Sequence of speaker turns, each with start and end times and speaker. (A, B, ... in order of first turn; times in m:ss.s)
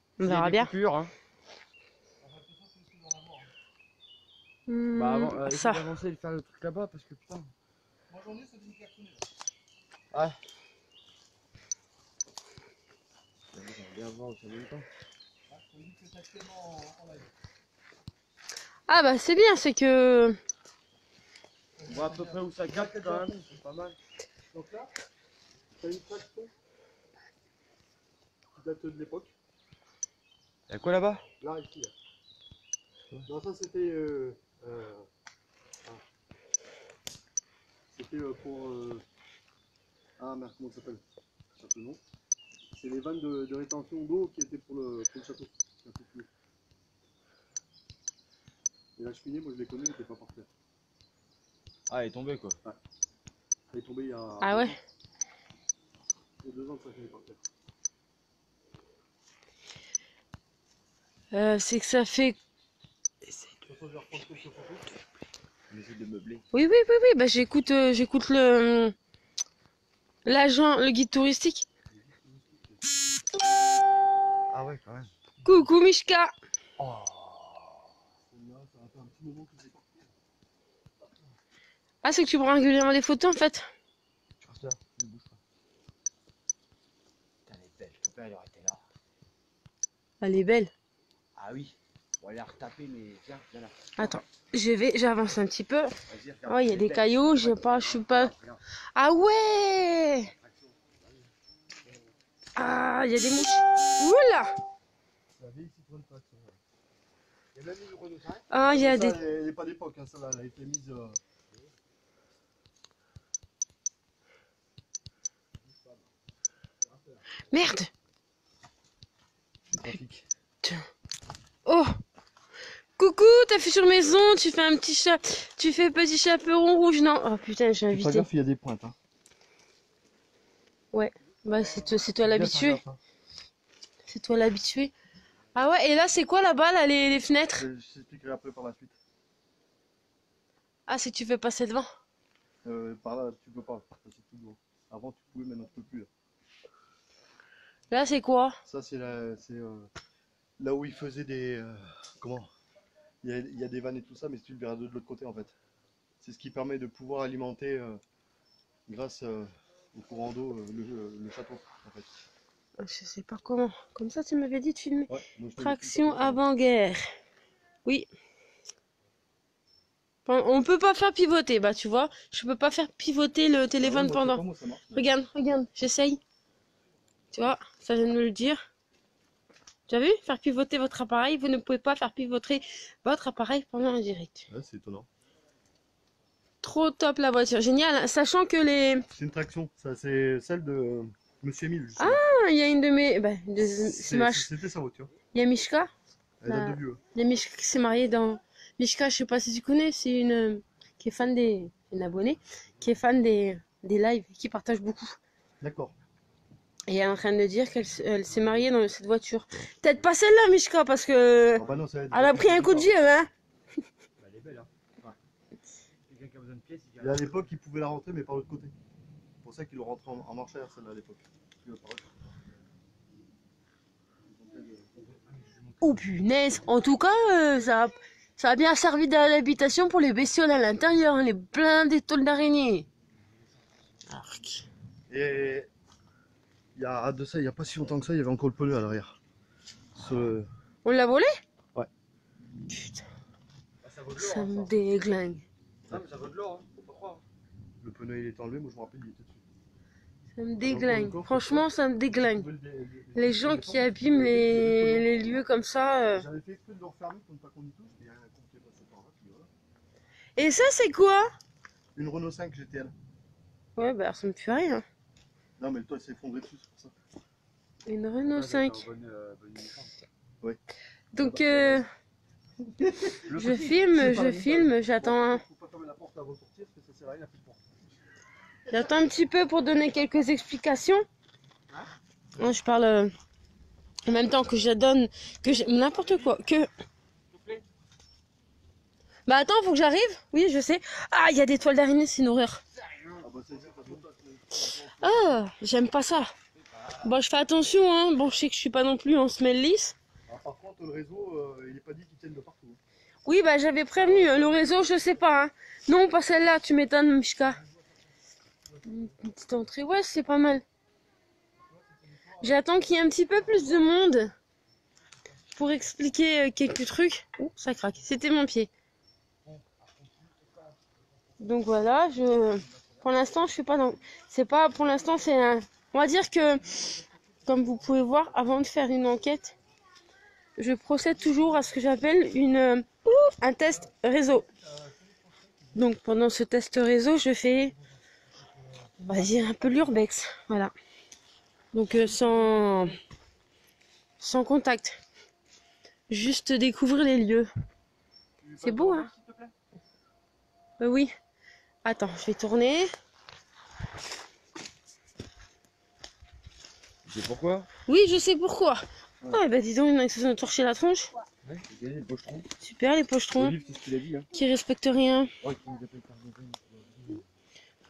0:00.2-0:00.7 A
0:00.2-0:01.1 B
0:02.2-0:03.5 C
0:04.7-0:05.9 A
0:05.0-0:07.5 B
0:08.1-0:09.3 C
0:10.1-0:10.4 B
0:13.5-0:14.9 B
0:15.5-0:17.3 C
0:18.9-0:20.4 A
0:21.8-0:23.6 C
0:21.9-0:24.0 B
0:24.5-0:24.9 C
0:25.7-0:26.5 C
0:28.5-0:29.4 C
0:30.7-0:31.2 B
0:31.4-0:31.9 C
0:33.3-0:35.1 C
0:37.9-0:39.0 C
0:40.2-0:41.0 C
0:41.6-0:42.0 C
0:42.7-0:46.3 C
0:49.0-0:50.5 C
0:51.9-0:52.6 B
0:53.7-0:54.8 C
0:54.4-0:54.8 A
0:56.4-0:57.4 C
1:01.3-1:02.4 A
1:03.6-1:04.9 C
1:05.7-1:06.4 B
1:06.5-1:09.0 A
1:10.2-1:11.7 A
1:11.9-1:12.8 C
1:14.5-1:15.1 B
1:15.4-1:16.3 A
1:16.8-1:17.8 B
1:18.3-1:20.1 C
1:22.0-1:23.7 A
1:24.4-1:25.4 B
1:27.5-1:28.8 B
1:30.2-1:30.7 A
1:31.4-1:34.1 B
1:34.0-1:36.0 A
1:36.1-1:38.6 B
1:36.5-1:38.3 A
1:39.0-1:40.3 A
1:40.4-1:41.2 B
1:42.6-1:44.6 A
1:45.4-1:46.6 C
1:47.6-1:48.5 B
1:48.5-1:49.2 A
1:48.6-1:51.2 C
1:55.6-1:56.0 B
1:56.8-1:57.2 B
1:57.5-1:57.9 A
1:59.7-2:00.2 C
2:01.7-2:02.0 A
2:03.0-2:08.3 A
2:07.9-2:09.0 C
2:10.9-2:12.8 A
2:12.1-2:13.0 C
2:14.1-2:14.9 A
2:15.6-2:17.6 A
2:17.6-2:19.0 C
2:20.9-2:21.9 A
2:22.6-2:26.1 C
2:27.9-2:28.6 A
2:28.7-2:29.9 C
2:30.6-2:32.5 C
2:33.2-2:35.6 C
2:36.2-2:38.0 C
2:38.9-2:42.1 C
2:42.8-2:47.1 A
2:45.1-2:46.4 C
2:50.3-2:54.4 A
2:53.8-2:55.1 C
2:54.9-2:56.2 A
2:57.3-2:58.6 A
2:59.9-3:04.5 A
3:04.5-3:05.1 C
3:06.6-3:09.1 A
3:09.1-3:12.2 C
3:12.0-3:14.5 A
3:13.8-3:15.1 C
3:15.3-3:15.9 A
3:16.4-3:17.0 C
3:16.5-3:25.2 A
3:25.6-3:25.9 C
3:26.9-3:33.3 A
3:31.6-3:32.9 C
3:34.2-3:34.7 B
3:36.1-3:37.3 B
3:37.0-3:38.8 C
3:39.4-3:42.1 C
3:44.3-3:45.0 C
3:45.0-3:46.1 B
3:45.8-3:52.9 A
3:54.1-3:54.7 A
3:55.1-3:55.7 C
3:56.8-3:59.2 C
4:00.0-4:00.5 C
4:00.8-4:01.4 A
4:02.7-4:03.0 A
4:03.8-4:04.7 B
4:04.2-4:05.5 A
4:05.9-4:07.2 B
4:07.8-4:09.4 C
4:10.4-4:12.5 A
4:10.6-4:15.4 C
4:13.2-4:16.2 A
4:16.1-4:19.5 C
4:20.4-4:21.3 A
4:22.0-4:22.9 C
4:23.8-4:24.8 A
4:25.6-4:26.9 C
4:27.9-4:28.8 A
4:28.3-4:29.9 B
4:31.1-4:31.9 A
4:31.2-4:31.8 C
4:32.6-4:37.8 C
4:33.3-4:33.8 B
4:33.3-4:35.4 A
4:38.7-4:41.1 A
4:42.4-4:43.1 A
4:44.1-4:46.7 A
4:47.3-4:47.6 B
4:49.3-4:52.6 A
4:52.8-4:53.2 B
4:53.2-4:55.4 C
4:55.0-4:56.3 A
4:57.0-5:00.0 A
5:00.3-5:02.8 C
5:03.3-5:07.6 A
5:04.0-5:04.6 C
5:08.9-5:10.6 A
5:11.7-5:12.6 C
5:12.4-5:14.3 A
5:15.5-5:18.7 A
5:19.4-5:20.8 B
5:21.4-5:26.8 A
5:27.5-5:29.5 A
5:30.6-5:34.5 A
5:33.7-5:35.5 C
5:35.8-5:37.8 A
5:39.0-5:40.7 A
5:41.7-5:43.0 A
5:44.2-5:45.0 A
5:46.1-5:47.5 A
5:48.4-5:49.5 B
5:48.6-5:49.1 A
5:50.8-5:51.1 A
5:51.8-5:52.9 A
5:57.1-5:57.7 B
5:57.9-6:01.1 A
6:01.4-6:02.5 B
6:02.6-6:03.6 A
6:03.4-6:04.3 B
6:04.3-6:05.3 A
6:05.4-6:07.2 B